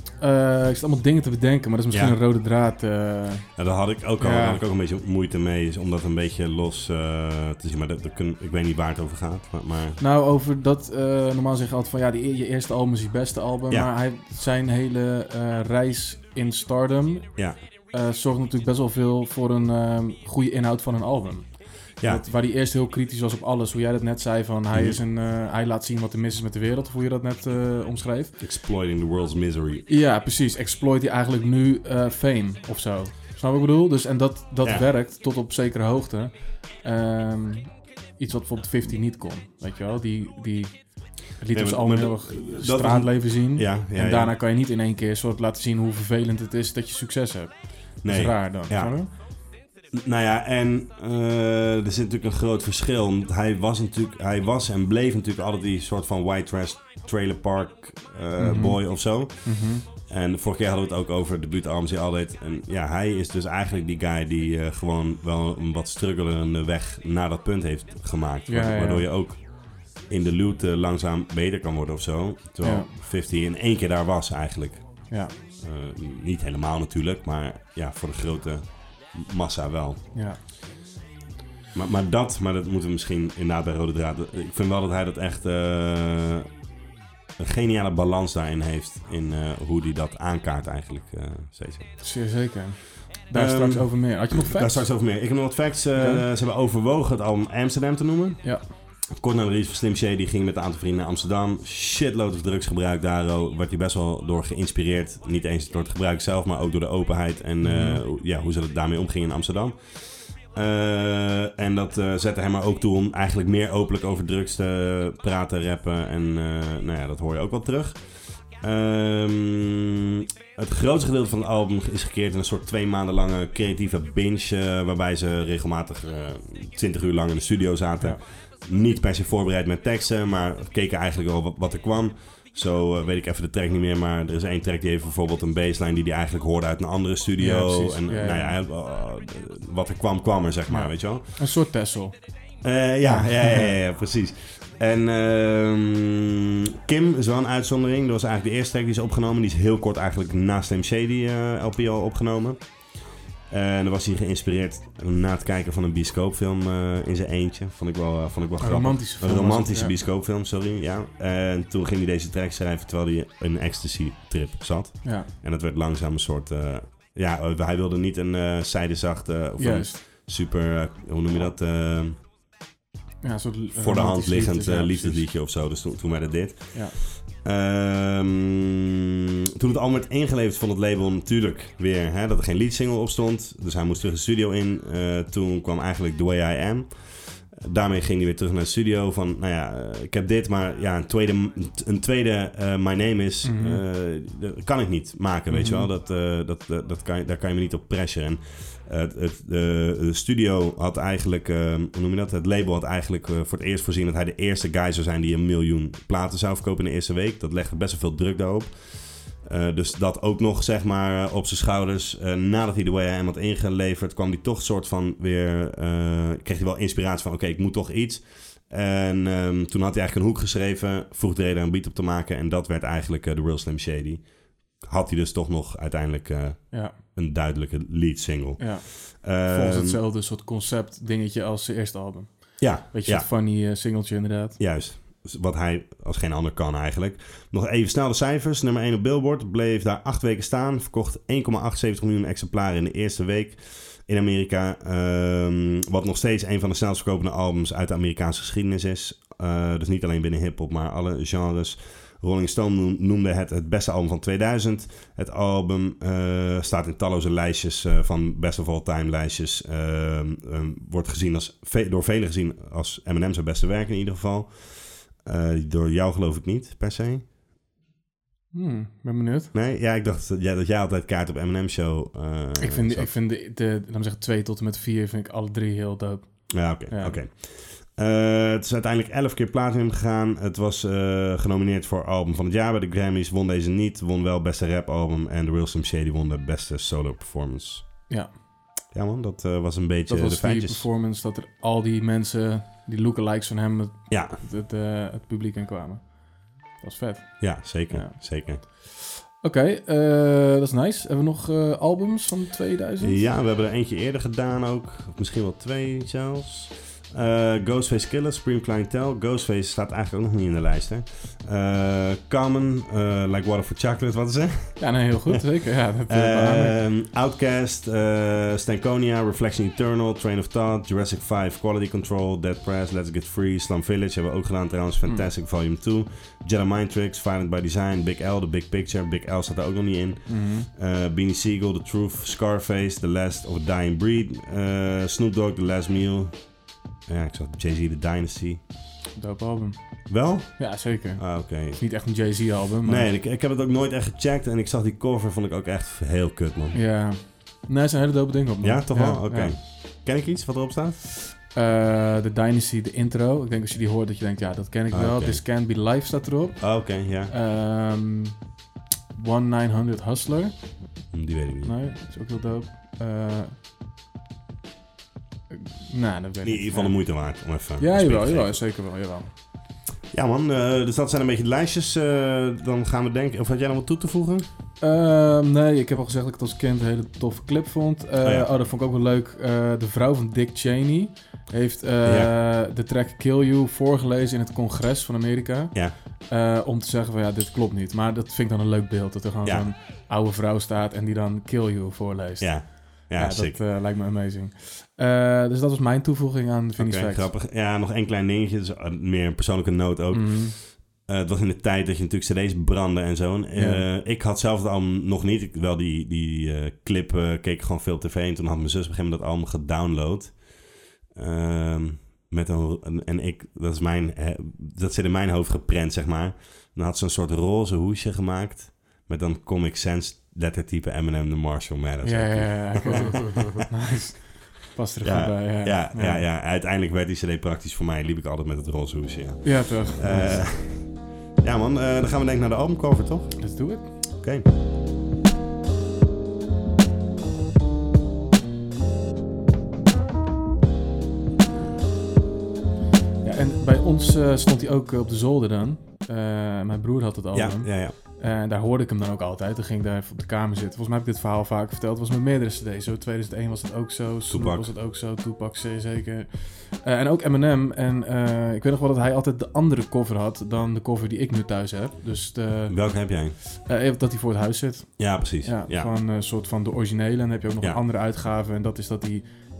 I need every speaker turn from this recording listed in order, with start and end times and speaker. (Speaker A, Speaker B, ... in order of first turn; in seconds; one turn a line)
Speaker A: 0.2-3.6
Speaker B: 1.9-2.2
Speaker B: 3.6-10.0
Speaker A: 4.2-4.6
Speaker A: 10.0-28.4
Speaker B: 17.4-17.6
Speaker B: 22.0-22.2
Speaker B: 24.7-25.0
Speaker B: 28.4-29.8
Speaker A: 29.9-49.1
Speaker B: 41.5-44.3
Speaker B: 48.0-49.0
Speaker B: 49.9-80.0
Speaker A: 58.4-59.8
Speaker A: 68.5-69.1
Speaker A: 72.6-72.9
Speaker A: 75.1-75.3
Speaker A: 80.1-80.4
Speaker B: 81.7-86.5
Speaker B: 87.4-92.0
Speaker A: 92.0-94.9
Speaker B: 93.3-98.6
Speaker A: 95.9-96.2
Speaker A: 98.4-98.7
Speaker B: 99.1-141.4
Speaker A: 107.6-108.0
Speaker A: 137.4-138.6
Speaker A: 140.7-142.1
Speaker B: 142.6-152.9
Speaker A: 143.1-143.7
Speaker B: 153.5-172.2
Speaker A: 158.6-159.9
Speaker A: 165.0-165.3
Speaker A: 169.6-170.0
Speaker A: 173.2-175.2
Speaker B: 173.7-179.0
Speaker A: 176.7-177.0
Speaker B: 179.6-230.0
Speaker A: 193.4-193.8
Speaker A: 195.5-195.9
Speaker A: 228.6-234.6
Speaker B: 232.6-233.3
Speaker B: 234.6-267.2
Speaker A: 268.5-269.5
Speaker B: 269.5-273.1
Speaker A: 272.6-277.2
Speaker B: 276.5-288.1
Speaker A: 288.1-288.4
Speaker B: 288.9-290.9
Speaker A: 290.1-303.2
Speaker B: 294.1-294.4
Speaker B: 297.4-298.6
Speaker B: 303.0-315.4
Speaker A: 314.8-316.8
Speaker B: 316.1-338.6
Speaker A: 330.2-330.7
Speaker A: 339.1-343.1
Speaker B: 340.1-342.3
Speaker B: 342.8-346.8
Speaker A: 346.7-349.6
Speaker B: 348.6-351.0
Speaker A: 351.5-358.4
Speaker B: 354.9-355.4
Speaker B: 356.6-357.3
Speaker A: 359.1-360.8
Speaker B: 361.1-361.7
Speaker A: 361.6-363.6
Speaker A: 365.5-369.3
Speaker B: 366.4-368.6
Speaker B: 370.1-374.5
Speaker A: 374.8-397.3
Speaker B: 378.2-378.5
Speaker B: 382.0-382.3
Speaker B: 389.4-389.7
Speaker B: 392.4-393.6
Speaker B: 396.8-423.5
Speaker A: 400.1-400.6
Speaker A: 403.5-403.8
Speaker A: 422.0-426.2
Speaker B: 425.0-433.4
Speaker A: 429.4-430.5
Speaker A: 433.4-433.9
Speaker B: 434.2-434.5
Speaker A: 443.2-469.3
Speaker B: 447.3-448.0
Speaker B: 454.3-454.7
Speaker B: 462.7-463.4
Speaker B: 465.0-465.9